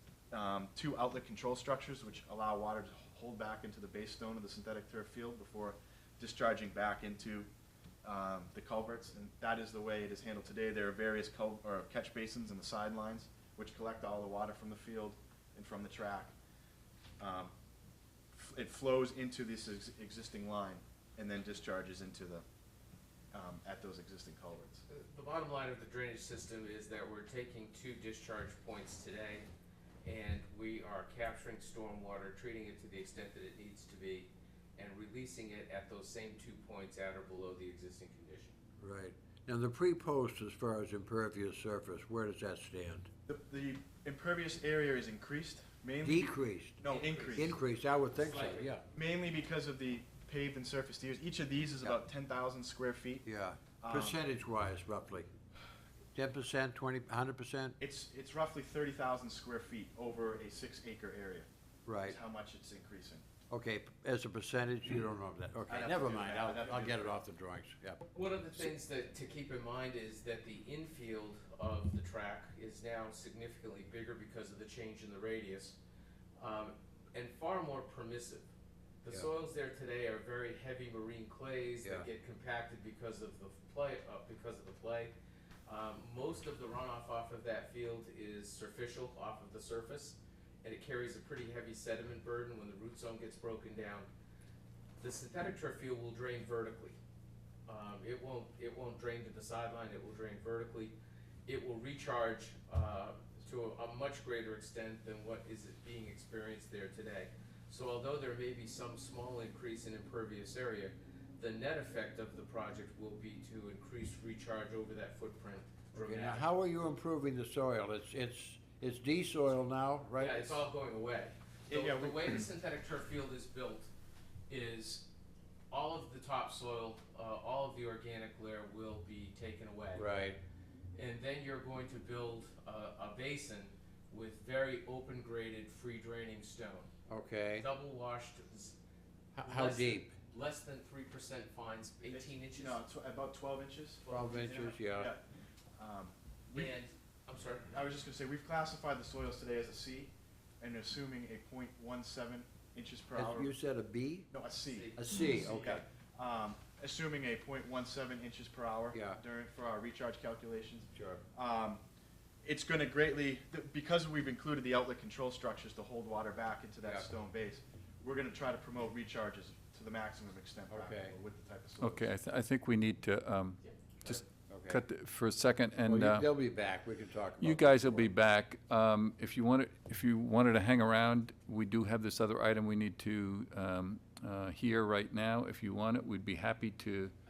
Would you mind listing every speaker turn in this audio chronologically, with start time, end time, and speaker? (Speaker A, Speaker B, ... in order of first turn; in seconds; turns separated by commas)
Speaker A: 0.3-7.5, Speaker A: 8.0-16.3, Speaker A: 17.2-17.5, Speaker A: 18.3-22.4, Speaker A: 23.3-24.8, Speaker B: 24.9-29.5, Speaker B: 30.0-38.5, Speaker C: 38.8-43.1, Speaker A: 43.3-47.6, Speaker C: 46.0-46.8, Speaker B: 46.9-47.5, Speaker C: 47.4-48.8, Speaker B: 48.2-48.7, Speaker A: 48.9-53.2, Speaker C: 53.2-55.3, Speaker A: 53.8-54.2, Speaker C: 56.1-57.8, Speaker A: 57.8-61.5, Speaker C: 61.9-62.2, Speaker A: 62.0-63.2, Speaker C: 63.5-68.1, Speaker A: 65.7-67.2, Speaker B: 68.1-75.8, Speaker B: 76.4-78.5, Speaker B: 79.0-85.2, Speaker C: 81.8-82.1, Speaker B: 85.7-94.1, Speaker B: 95.0-97.0, Speaker B: 97.7-116.5, Speaker C: 116.0-120.6, Speaker B: 120.2-123.9, Speaker A: 121.7-122.4, Speaker B: 124.5-125.1, Speaker B: 125.7-130.3, Speaker C: 129.9-130.4, Speaker B: 130.9-136.9, Speaker C: 137.1-137.7, Speaker B: 137.6-138.8, Speaker C: 139.3-140.2, Speaker B: 139.4-142.8, Speaker A: 142.1-144.0, Speaker B: 144.0-144.8, Speaker C: 144.1-145.1, Speaker A: 144.9-145.2, Speaker A: 145.8-146.7, Speaker B: 146.5-147.8, Speaker A: 147.7-153.5, Speaker C: 153.2-154.3, Speaker A: 154.3-161.8, Speaker B: 154.7-155.7, Speaker C: 155.0-155.8, Speaker C: 158.9-159.2, Speaker C: 160.9-161.2, Speaker A: 162.4-172.1, Speaker C: 170.7-171.2, Speaker D: 171.8-176.3, Speaker C: 174.5-174.8, Speaker C: 175.9-178.1, Speaker D: 177.4-187.2